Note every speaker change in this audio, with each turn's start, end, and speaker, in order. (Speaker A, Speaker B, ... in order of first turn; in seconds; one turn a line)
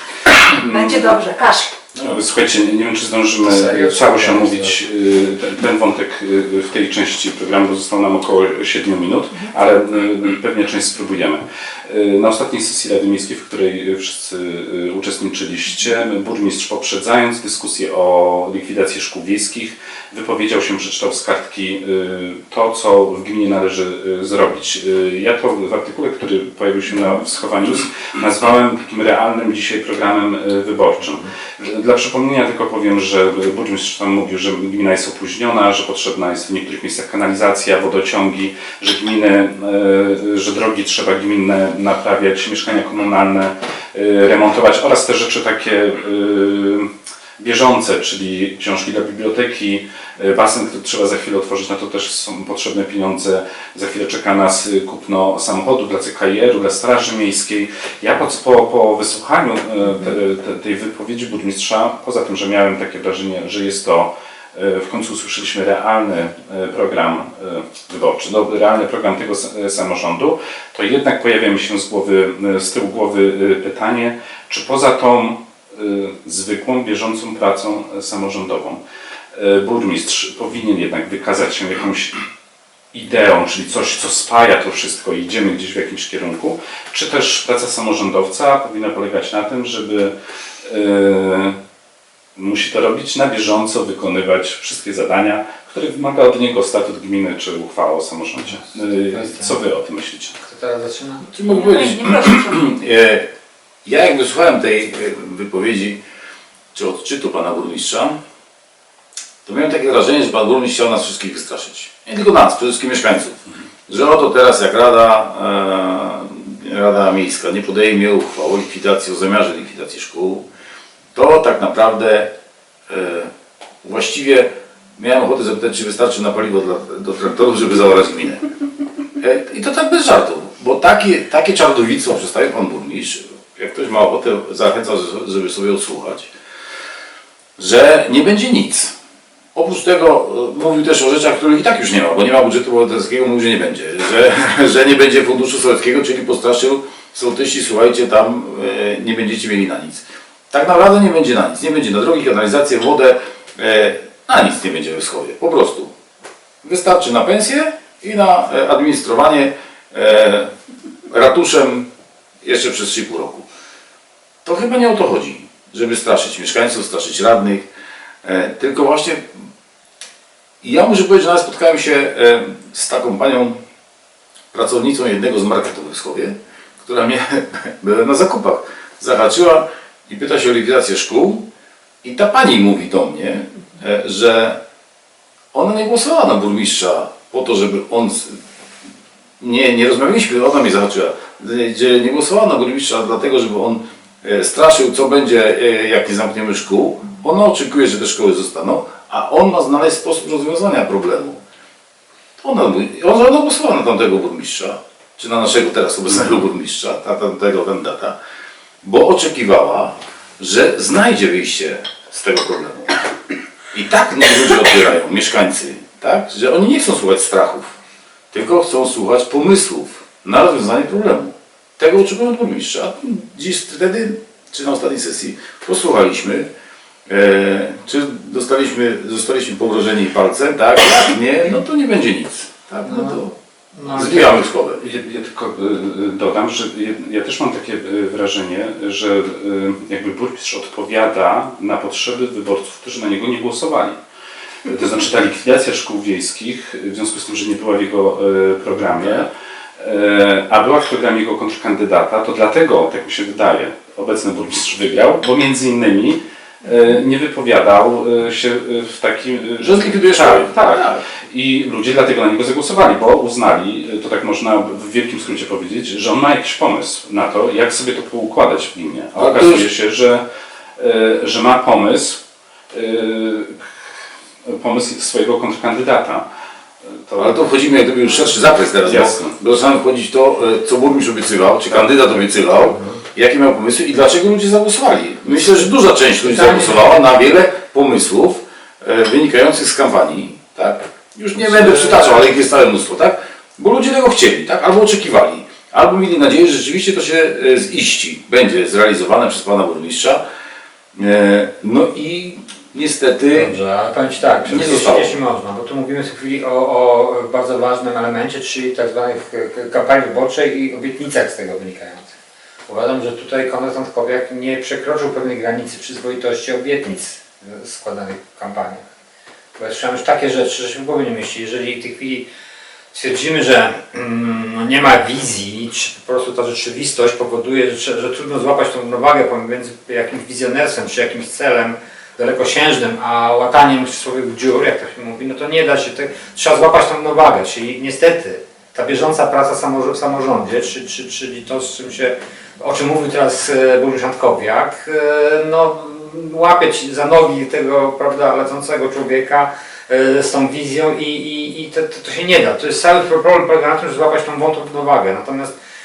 Speaker A: 0.5-1.1
Speaker B: 0.6-1.8
Speaker C: 1.9-2.2
Speaker A: 2.0-78.8
Speaker D: 3.4-4.8
Speaker A: 79.3-82.2
Speaker A: 82.9-90.1
Speaker A: 90.6-91.6
Speaker A: 92.4-100.4
Speaker D: 98.6-99.6
Speaker D: 100.4-101.3
Speaker C: 101.3-103.3
Speaker B: 101.5-102.6
Speaker C: 103.8-106.0
Speaker C: 106.7-108.2
Speaker C: 109.5-120.5
Speaker C: 121.1-122.3
Speaker C: 122.9-123.3
Speaker C: 123.8-128.5
Speaker C: 129.2-136.3
Speaker C: 137.6-138.9
Speaker C: 139.6-155.9
Speaker C: 156.6-160.5
Speaker C: 161.1-161.9
Speaker C: 162.4-163.4
Speaker C: 164.4-167.7
Speaker C: 168.2-169.3
Speaker C: 170.6-173.6
Speaker C: 174.5-181.5
Speaker C: 182.0-184.6
Speaker C: 185.5-188.4
Speaker C: 189.4-201.4
Speaker C: 202.4-208.2
Speaker C: 208.8-213.0
Speaker C: 213.7-217.8
Speaker C: 218.3-226.5
Speaker C: 227.1-233.3
Speaker D: 232.8-233.2
Speaker D: 233.7-234.4
Speaker C: 233.9-234.8
Speaker A: 234.8-244.0
Speaker A: 244.7-270.2
Speaker C: 259.6-261.1
Speaker C: 269.2-269.7
Speaker A: 270.8-272.2
Speaker A: 272.7-273.6
Speaker A: 274.4-276.2
Speaker A: 276.9-277.5
Speaker C: 277.2-300.2
Speaker A: 278.8-279.4
Speaker D: 282.7-283.0
Speaker D: 286.2-287.0
Speaker D: 291.4-292.4
Speaker C: 301.0-303.6
Speaker D: 303.3-312.1
Speaker C: 304.4-305.1
Speaker D: 312.7-318.8
Speaker D: 319.6-322.3
Speaker D: 322.9-355.5